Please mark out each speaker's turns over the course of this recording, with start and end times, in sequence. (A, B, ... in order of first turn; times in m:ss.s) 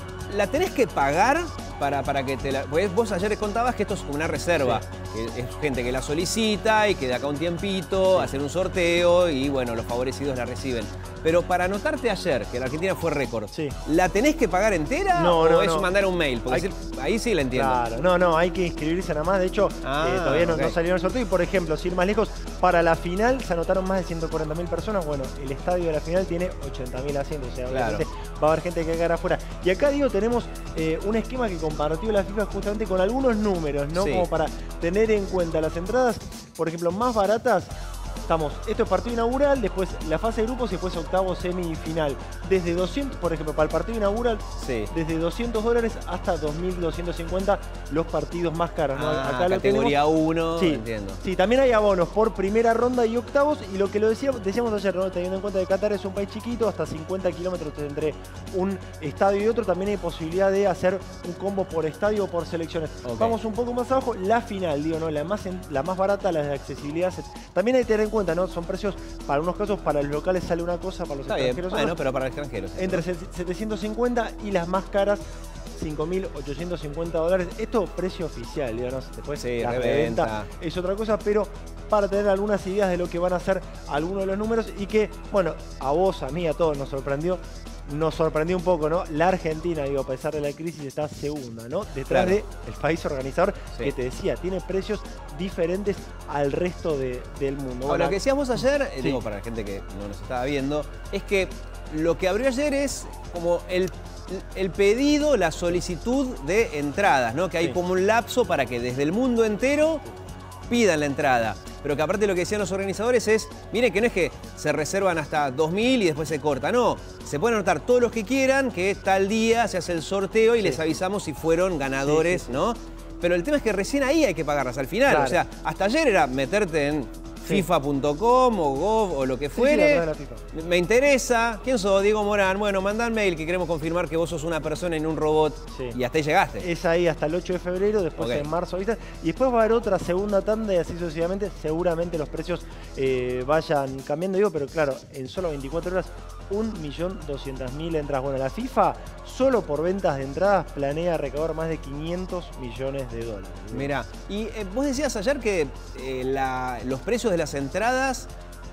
0:00.3-0:17.8 A
0:15.1-0:15.9 B
0:17.5-0:37.7 B
0:19.8-0:20.8 A
0:27.7-0:28.0 A
0:33.9-0:34.3 A
0:38.3-0:50.0 B
0:44.6-0:44.9 A
0:48.9-0:51.2 A
0:50.6-1:12.0 B
1:03.0-1:03.4 A
1:11.3-1:13.0 A
1:12.8-1:15.2 B
1:15.7-1:39.2 B
1:19.4-1:20.5 A
1:32.1-1:32.4 A
1:37.9-1:50.1 A
1:50.7-2:16.7 A
2:00.6-2:01.0 B
2:02.1-2:02.6 B
2:05.1-2:05.4 B
2:09.6-2:10.4 B
2:16.6-2:33.9 B
2:18.2-2:18.5 A
2:33.7-2:38.3 A